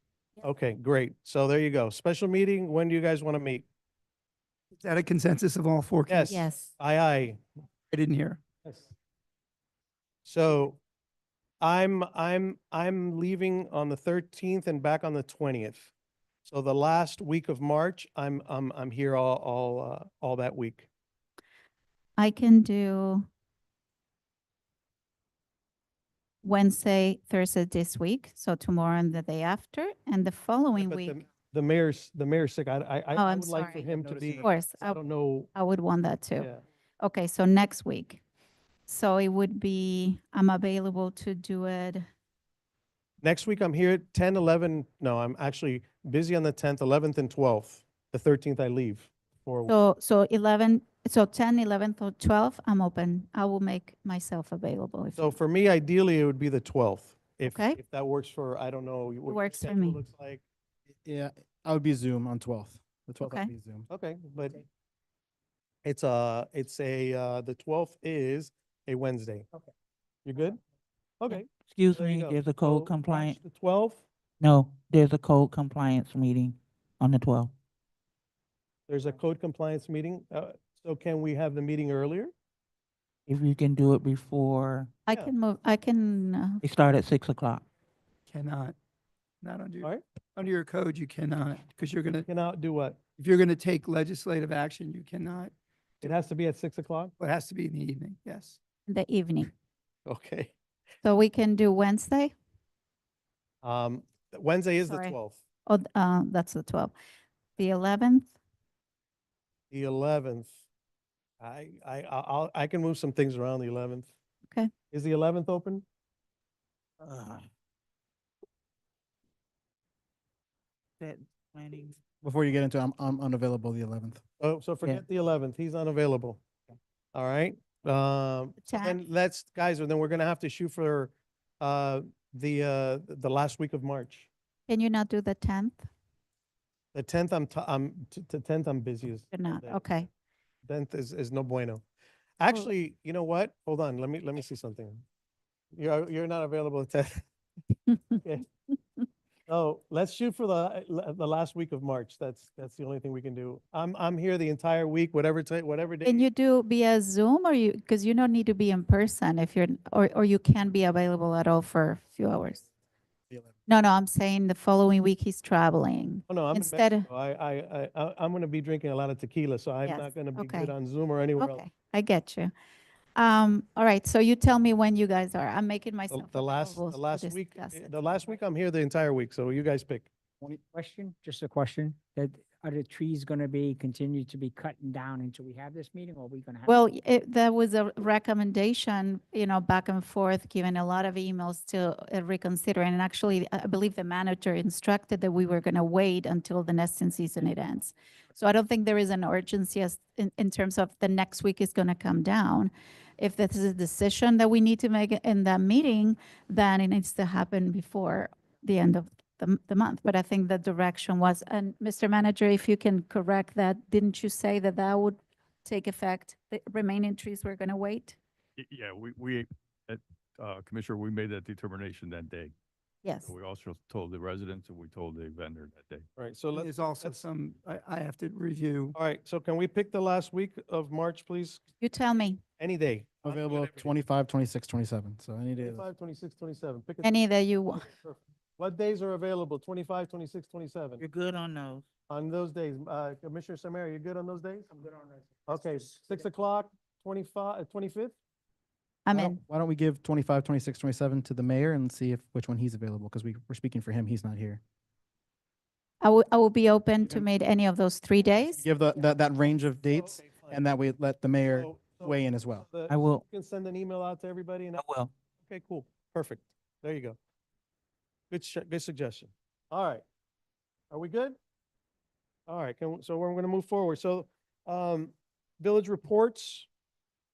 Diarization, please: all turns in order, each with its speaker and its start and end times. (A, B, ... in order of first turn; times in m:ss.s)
0:00.4-0:03.6 A
0:04.7-0:06.5 B
0:06.1-0:07.4 A
0:06.3-0:06.7 C
0:07.9-0:08.4 B
0:08.6-0:08.9 A
0:10.2-0:10.8 A
0:11.6-0:15.9 A
0:16.4-0:20.9 A
0:22.2-0:23.3 C
0:26.4-0:31.2 C
0:30.8-0:35.5 A
0:33.2-0:35.0 C
0:35.5-0:36.5 C
0:37.0-0:38.2 C
0:38.9-0:42.1 C
0:43.2-0:49.7 A
0:49.7-0:55.4 C
0:55.2-1:00.4 A
0:57.5-0:57.8 C
0:59.3-1:00.0 C
1:01.0-1:03.9 D
1:03.2-1:03.5 C
1:03.9-1:04.6 A
1:05.8-1:09.5 A
1:10.2-1:10.6 A
1:11.2-1:14.0 A
1:11.7-1:13.4 E
1:14.4-1:17.5 E
1:18.9-1:22.3 A
1:23.3-1:24.9 E
1:25.1-1:26.6 C
1:26.6-1:27.6 E
1:28.3-1:28.8 B
1:29.4-1:32.3 B
1:32.3-1:33.0 A
1:33.2-1:36.1 B
1:36.0-1:37.1 A
1:37.2-1:38.6 B
1:38.9-1:39.5 C
1:40.1-1:40.5 A
1:41.0-1:42.3 C
1:43.6-1:45.4 A
1:44.8-1:46.9 C
1:47.6-1:48.3 C
1:49.7-1:50.6 A
1:51.4-1:54.1 A
1:54.9-1:55.8 A
1:57.0-1:57.5 E
2:01.0-2:02.0 E
2:02.2-2:04.2 D
2:04.4-2:06.4 A
2:07.1-2:14.3 A
2:08.6-2:09.0 C
2:14.7-2:15.9 C
2:16.9-2:20.0 A
2:19.3-2:20.1 C
2:20.6-2:21.8 A
2:22.4-2:25.0 A
2:25.8-2:27.2 A
2:29.5-2:36.3 A
2:36.0-2:42.6 C
2:43.7-2:47.1 C
2:46.3-2:51.6 A
2:49.8-2:50.7 C
2:51.4-2:52.5 C
2:53.2-2:58.2 C
2:56.1-3:00.1 A
3:00.7-3:06.8 F
3:06.7-3:38.2 C
3:38.6-3:42.5 G
3:43.0-3:43.3 C
3:43.2-3:46.1 G
3:46.2-3:47.2 A
3:46.5-3:49.0 B
3:49.0-3:51.6 A
3:51.8-3:52.4 C
3:52.6-3:53.9 A
3:53.2-3:55.8 D
3:55.6-3:57.2 A
3:57.0-3:57.9 C
3:57.7-4:01.0 A
4:01.0-4:01.8 E
4:02.1-4:04.7 A
4:05.5-4:08.2 A
4:09.1-4:09.4 C
4:09.1-4:14.6 D
4:16.0-4:18.6 C
4:18.4-4:22.7 D
4:19.9-4:20.6 A
4:21.5-4:24.8 A
4:22.9-4:23.2 E
4:24.8-4:25.1 E
4:25.4-4:27.2 A
4:28.3-4:30.0 A
4:30.9-4:31.4 A
4:32.5-4:36.7 A